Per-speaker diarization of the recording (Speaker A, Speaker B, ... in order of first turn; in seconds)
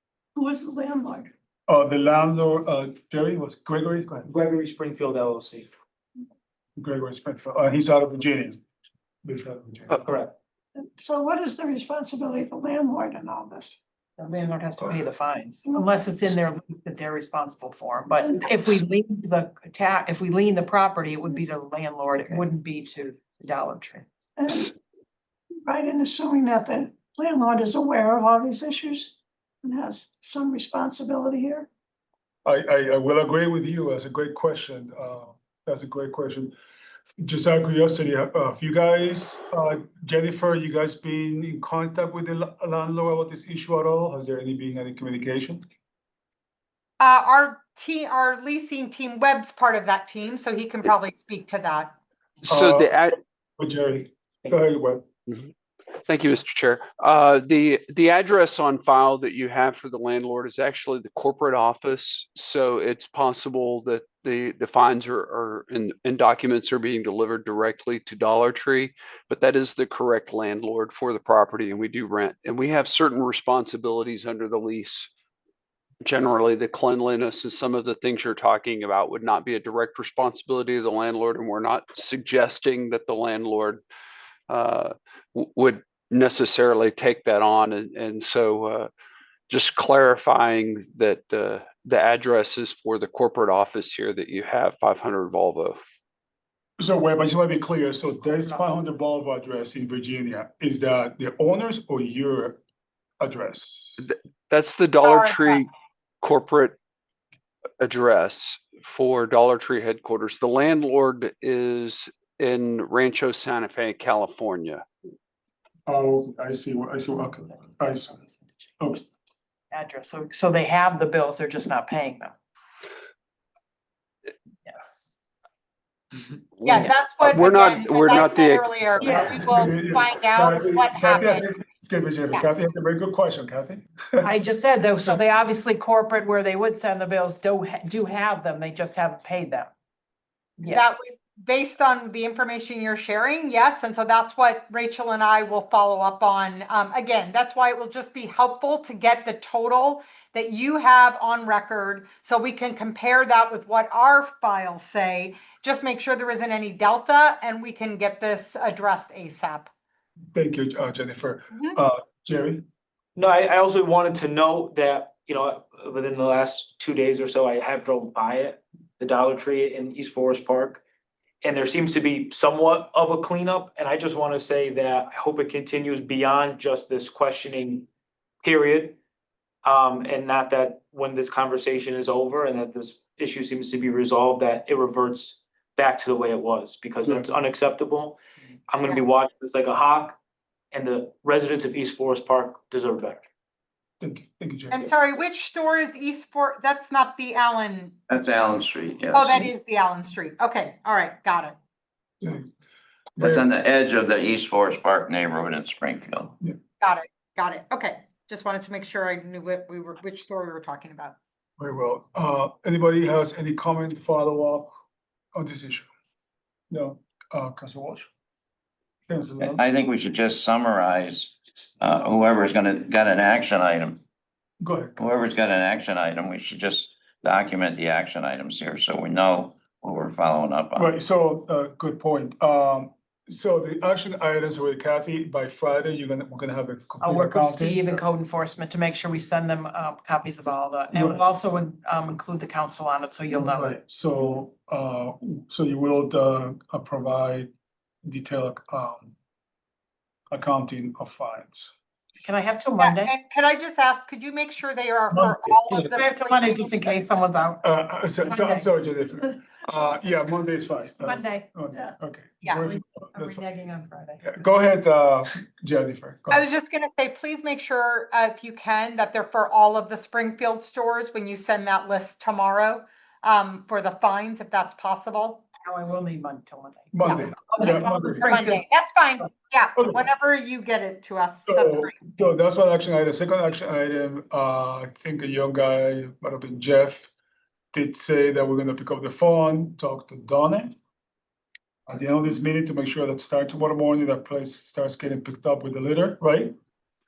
Speaker A: 0.4-1.3, 10.8-13.8, 24.4-24.7, 25.6-31.7
Speaker B: 1.7-4.3, 6.8-8.6, 9.2-10.0, 32.5-36.5, 37.2-45.6, 52.5-52.9, 53.6-55.0, 96.8-102.6, 103.2-104.0, 115.9-118.2, 129.1-134.3, 160.3-162.6, 194.0-194.9, 202.2-202.5, 203.2-203.4, 211.6-214.7, 215.3-215.9, 216.7-218.1, 219.1-219.6, 224.6-225.0, 230.8-238.0, 243.3-247.5, 248.1-249.2, 250.3-251.7, 255.1-255.5, 257.6-263.4, 264.2-266.5, 276.9-278.3, 281.5-287.1, 287.7-290.7, 291.9-296.5
Speaker C: 4.3-5.7, 10.0-10.3, 163.2-170.8, 171.4-177.9, 178.4-179.0, 179.7-188.2, 188.7-190.2, 190.8-193.2
Speaker D: 14.2-24.1, 98.3-98.6, 118.2-118.5, 119.7-122.3, 124.7-125.0, 129.0-129.4, 134.2-139.7, 140.6-141.1, 237.0-243.8, 252.2-253.1, 255.7-258.7, 261.0-261.4, 262.5-264.4, 275.6-278.6
Speaker E: 47.0-51.9, 105.0-105.6, 126.7-131.5, 140.7-159.7, 161.5-161.8, 194.7-198.0, 199.1-201.6, 206.8-211.2, 252.8-257.0, 266.3-275.4, 278.2-282.0
Speaker F: 52.4-53.2, 56.1-75.1, 76.0-83.8, 84.5-88.9, 89.5-95.8, 104.0-105.7, 106.2-106.8, 107.8-114.8, 126.6-128.7
Speaker G: 198.1-199.5, 203.2-206.4, 219.4-224.0, 225.0-230.9